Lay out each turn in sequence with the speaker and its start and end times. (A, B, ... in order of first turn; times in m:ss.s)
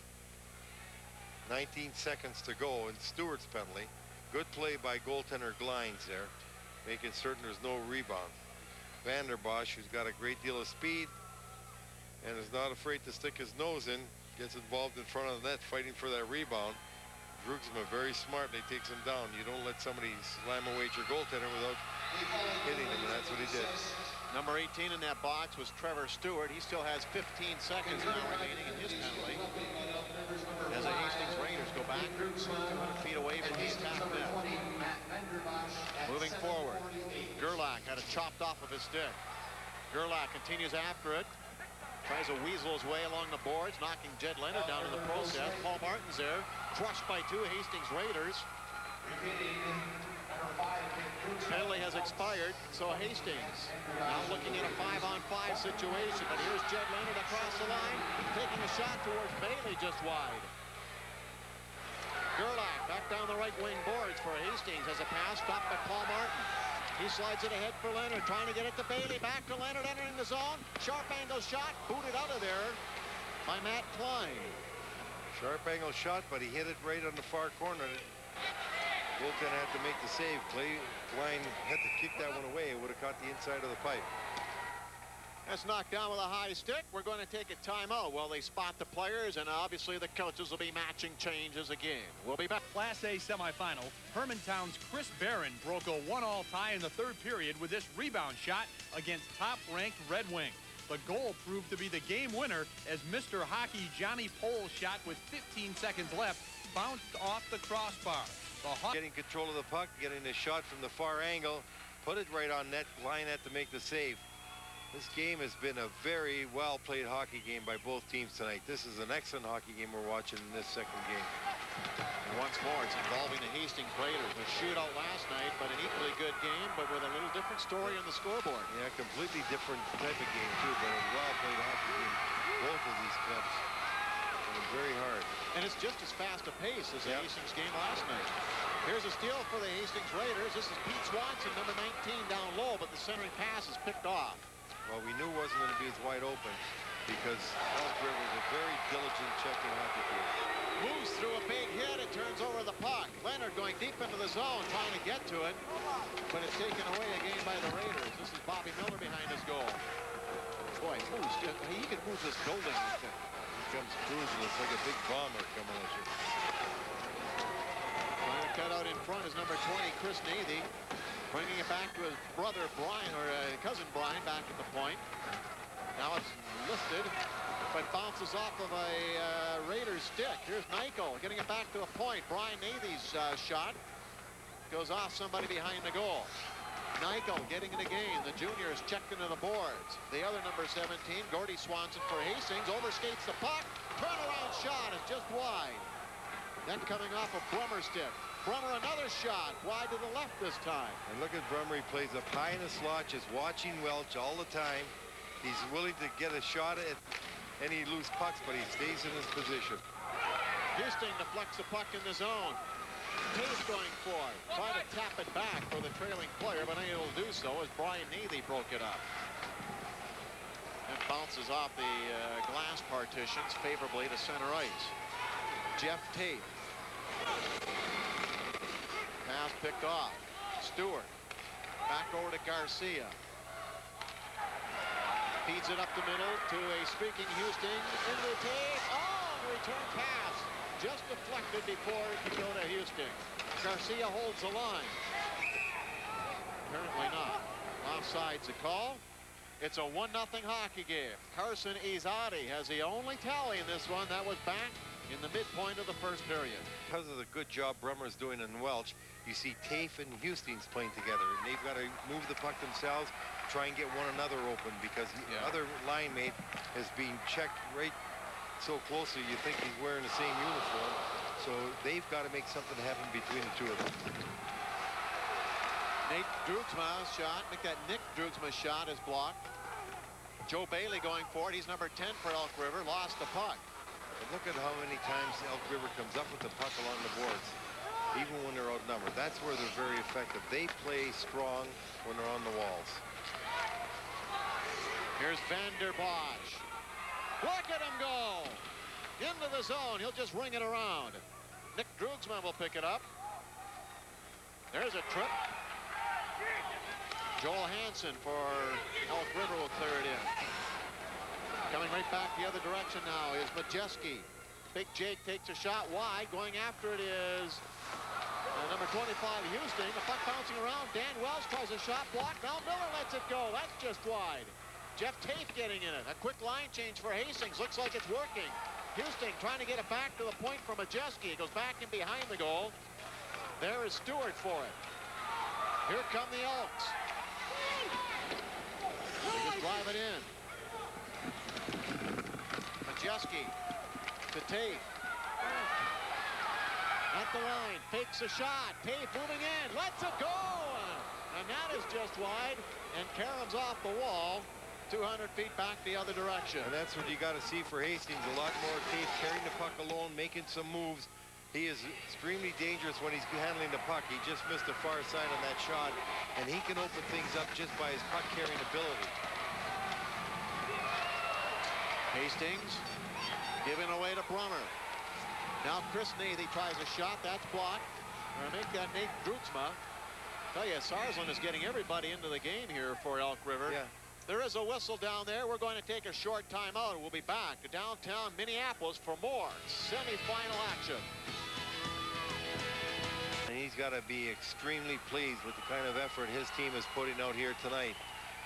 0:01.4-0:06.3 A
0:06.8-0:08.4 A
0:09.0-0:11.1 A
0:12.2-0:16.8 A
0:17.3-0:21.8 A
0:22.6-0:23.8 A
0:24.3-0:29.5 B
0:30.7-0:34.6 B
0:36.0-0:39.2 B
0:39.9-0:41.3 B
0:42.0-0:48.5 B
0:51.4-1:00.5 B
1:02.4-1:12.8 B
1:13.4-1:14.6 B
1:15.3-1:18.0 A
1:19.2-1:24.1 A
1:25.4-1:32.6 B
1:32.7-1:48.9 C
1:48.9-1:54.2 A
1:54.9-2:01.4 A
2:02.2-2:08.7 B
2:08.7-2:13.6 A
2:14.4-2:15.3 A
2:15.5-2:24.5 B
2:17.0-2:17.3 A
2:24.8-2:30.3 A
2:30.8-2:35.6 B
2:36.3-2:39.8 B
2:40.8-2:43.2 B
2:43.5-2:46.1 A
2:48.2-2:50.7 B
2:51.3-2:55.0 B
2:56.0-2:57.1 B
2:57.7-3:03.8 B
3:04.7-3:06.3 B
3:07.0-3:15.9 B
3:16.6-3:21.0 B
3:21.0-3:27.0 A
3:27.6-3:29.8 A
3:30.7-3:32.6 B
3:33.3-3:39.0 B
3:40.9-3:44.9 B
3:45.8-3:46.5 B
3:49.2-3:51.1 B
3:51.9-3:53.2 B
3:55.4-4:05.0 B
4:06.6-4:09.0 B
4:09.6-4:16.7 B
4:16.9-4:28.0 A
4:25.3-4:25.6 B
4:28.6-4:34.2 A
4:36.0-4:39.4 B
4:40.4-4:43.6 B
4:44.2-4:47.6 A
4:48.1-4:53.0 A
4:55.2-4:56.6 B
4:57.4-4:58.6 B
4:59.2-5:01.2 B
5:01.7-5:03.0 B
5:04.7-5:05.4 B
5:07.4-5:10.3 B
5:11.7-5:17.6 B
5:18.5-5:32.8 B
5:33.6-5:34.8 B
5:35.8-5:37.0 B
5:39.3-5:40.3 B
5:42.8-5:43.6 B
5:44.3-5:44.8 B
5:47.1-5:56.7 B
5:56.6-6:09.1 A
6:12.1-6:12.8 B
6:13.6-6:14.7 B
6:15.6-6:19.8 B
6:20.5-6:31.1 B
6:23.6-6:23.9 A
6:33.4-6:38.0 A